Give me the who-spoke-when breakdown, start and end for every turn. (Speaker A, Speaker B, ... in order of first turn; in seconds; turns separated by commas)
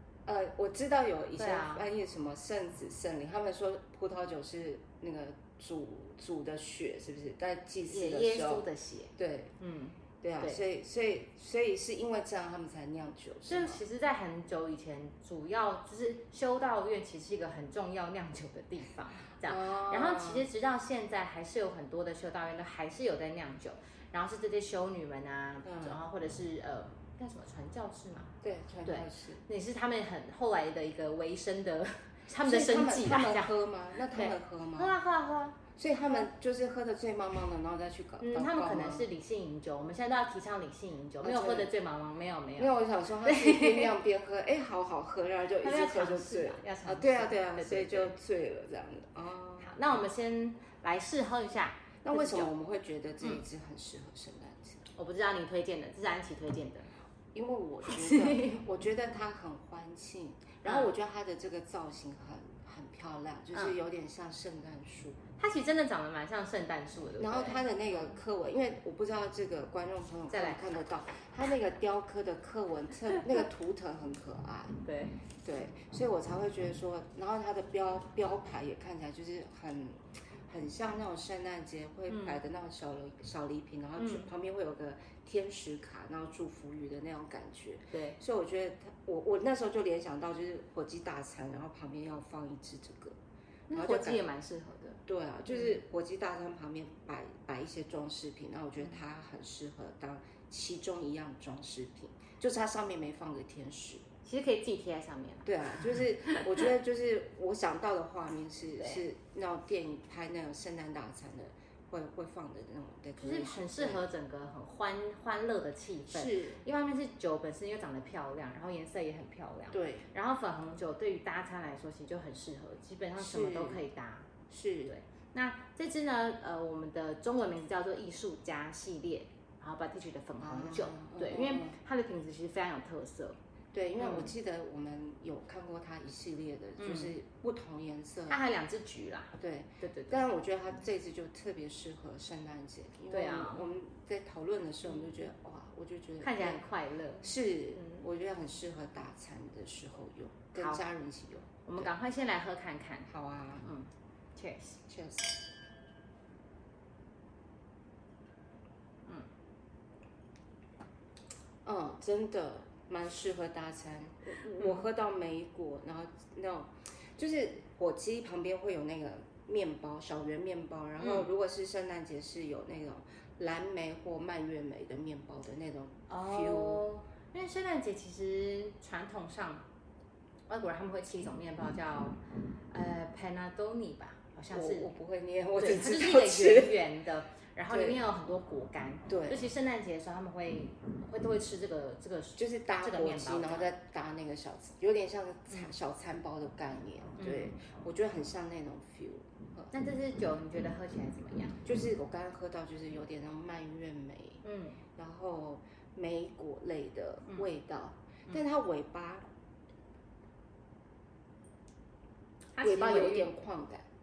Speaker A: 0.3-8.6, Speaker B: 1.4-1.9, Speaker B: 7.9-10.6, Speaker A: 9.2-9.5, Speaker A: 10.2-13.8, Speaker B: 13.5-28.3, Speaker A: 19.4-20.5, Speaker A: 25.6-26.0, Speaker A: 28.4-29.4, Speaker B: 28.9-33.5, Speaker A: 32.4-34.9, Speaker B: 34.1-35.6, Speaker A: 35.8-39.1, Speaker B: 38.2-43.9, Speaker A: 41.2-41.7, Speaker A: 42.6-50.0, Speaker B: 45.6-48.1, Speaker B: 49.6-52.5, Speaker A: 52.0-54.8, Speaker B: 55.0-56.9, Speaker A: 57.3-65.2, Speaker B: 57.9-58.6, Speaker B: 60.7-60.9, Speaker B: 65.4-68.2, Speaker A: 67.2-74.8, Speaker B: 70.3-70.6, Speaker B: 74.8-75.2, Speaker A: 75.4-93.2, Speaker B: 82.1-82.4, Speaker B: 84.0-84.3, Speaker B: 87.9-88.2, Speaker B: 93.7-95.8, Speaker A: 93.7-94.2, Speaker A: 95.1-104.0, Speaker B: 104.2-106.5, Speaker A: 105.5-114.0, Speaker B: 113.2-124.3, Speaker A: 116.1-116.6, Speaker A: 119.7-120.1, Speaker A: 123.2-123.8, Speaker A: 124.5-124.9, Speaker B: 124.9-133.4, Speaker A: 130.4-131.8, Speaker A: 133.7-138.4, Speaker B: 134.0-134.3, Speaker B: 136.8-137.1, Speaker B: 138.3-140.2, Speaker A: 139.4-146.6, Speaker B: 143.1-143.7, Speaker B: 146.2-148.0, Speaker A: 147.2-151.9, Speaker B: 150.6-150.8, Speaker B: 151.7-154.8, Speaker A: 153.1-153.7, Speaker A: 154.9-155.3, Speaker A: 161.7-176.8, Speaker B: 171.0-171.3, Speaker B: 176.1-179.6, Speaker B: 180.5-182.2, Speaker B: 182.7-184.9, Speaker A: 184.5-186.8, Speaker B: 185.6-193.7, Speaker A: 187.7-188.0, Speaker A: 189.1-189.4, Speaker A: 192.4-199.7, Speaker B: 197.2-197.5, Speaker B: 199.7-201.6, Speaker A: 201.6-204.4, Speaker B: 204.4-204.8, Speaker A: 205.0-209.3, Speaker B: 212.6-213.3, Speaker A: 212.6-213.9